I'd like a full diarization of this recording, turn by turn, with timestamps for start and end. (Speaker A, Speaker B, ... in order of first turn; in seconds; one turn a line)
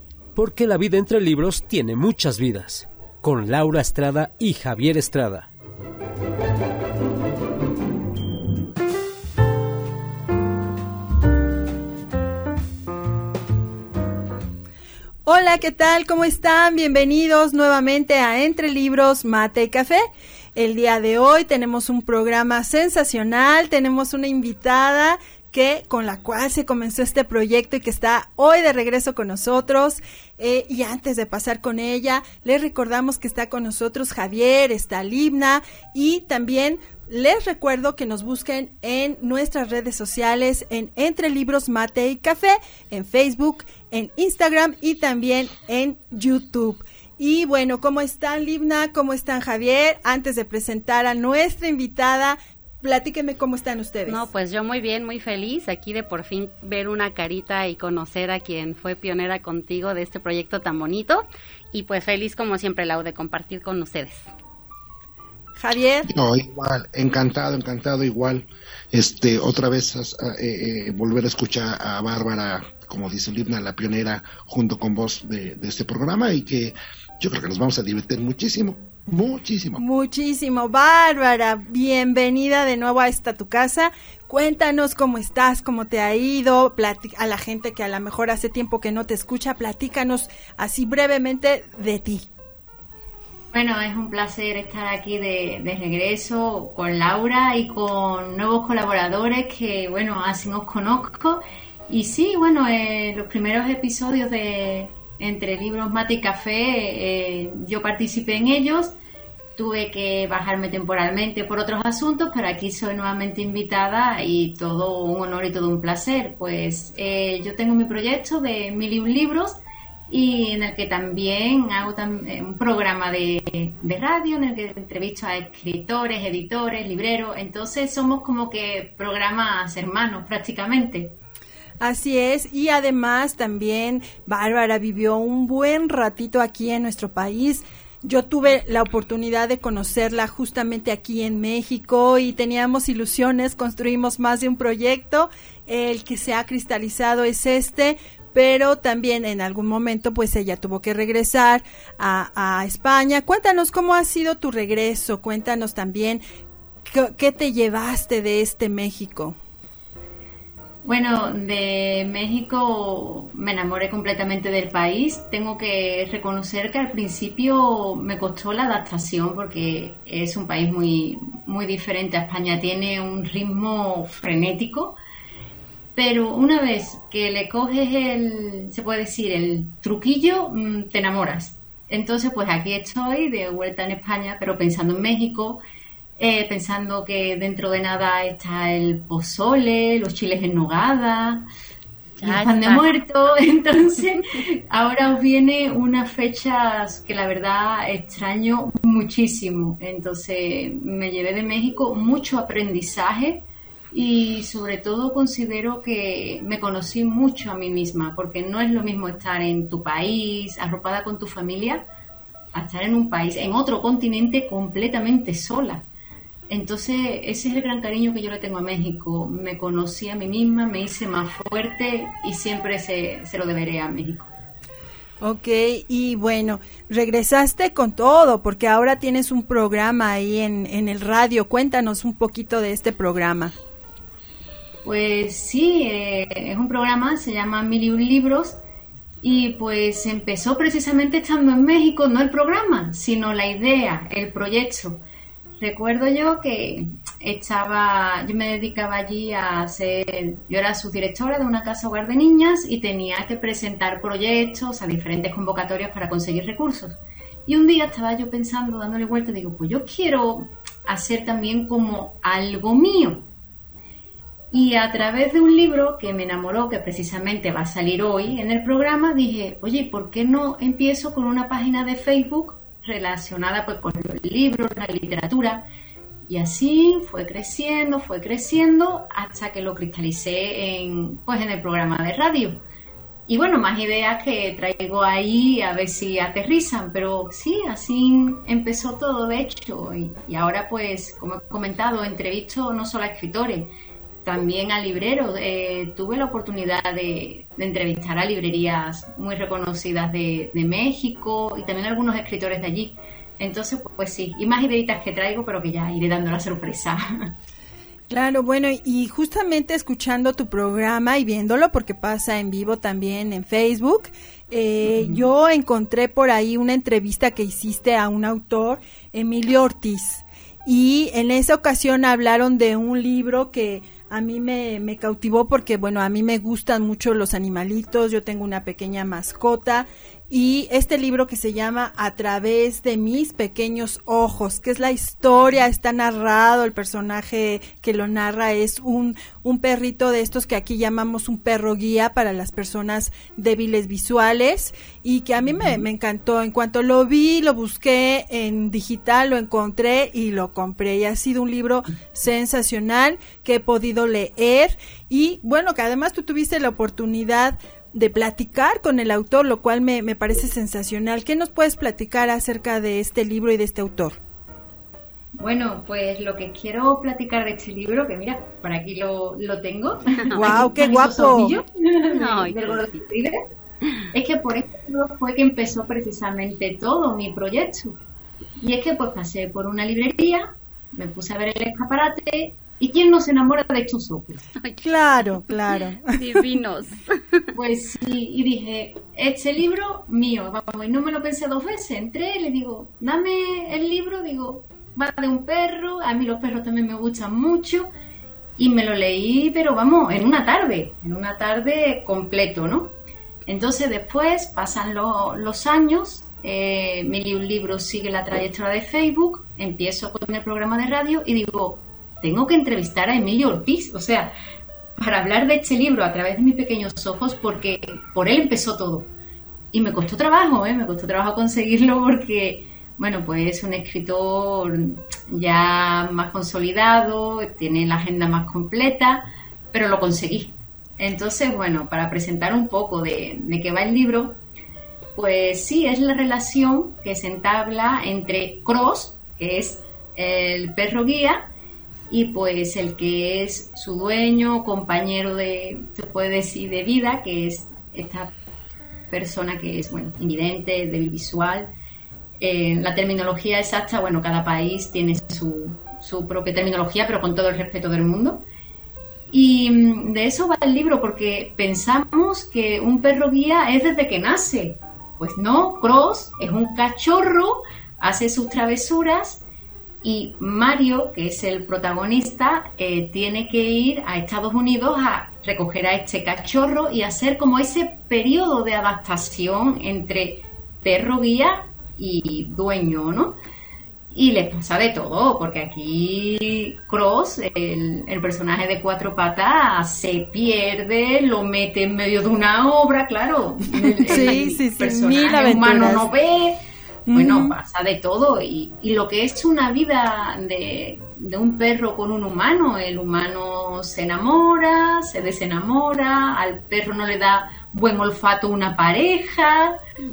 Speaker A: 0.3-5.5
Speaker B: 15.2-20.0
Speaker B: 20.6-54.2
Speaker C: 54.0-64.3
Speaker B: 65.6-66.1
Speaker D: 66.1-79.8
Speaker B: 79.8-92.3
Speaker E: 93.5-108.9
Speaker E: 109.5-119.6
Speaker E: 120.1-131.1
Speaker B: 131.8-156.2
Speaker B: 156.9-159.3
Speaker E: 160.8-175.0
Speaker E: 175.9-185.6
Speaker E: 186.2-191.4
Speaker C: 192.2-192.8
Speaker E: 192.2-211.8
Speaker E: 212.5-215.8
Speaker E: 216.5-224.3
Speaker B: 225.2-233.5
Speaker E: 234.8-238.6
Speaker E: 239.2-245.0
Speaker E: 245.6-263.3
Speaker E: 264.5-275.7
Speaker E: 276.3-282.6
Speaker E: 283.3-293.7
Speaker E: 294.2-307.3
Speaker B: 308.1-364.2
Speaker E: 314.9-315.2
Speaker E: 365.4-373.4
Speaker C: 370.2-370.6
Speaker B: 370.3-371.6
Speaker C: 372.1-373.0
Speaker E: 374.1-378.0
Speaker E: 378.6-384.5
Speaker C: 384.6-385.5
Speaker B: 384.8-386.2
Speaker C: 386.1-387.4
Speaker E: 387.5-397.9
Speaker E: 398.6-402.9
Speaker E: 403.4-414.3
Speaker E: 415.0-419.1
Speaker E: 419.7-434.4
Speaker E: 435.1-441.5
Speaker E: 442.1-448.3
Speaker E: 449.1-451.7
Speaker E: 452.4-458.4
Speaker E: 459.3-469.4
Speaker E: 470.0-483.4
Speaker E: 484.1-496.6
Speaker B: 494.1-496.1
Speaker B: 497.1-497.5
Speaker E: 497.1-509.8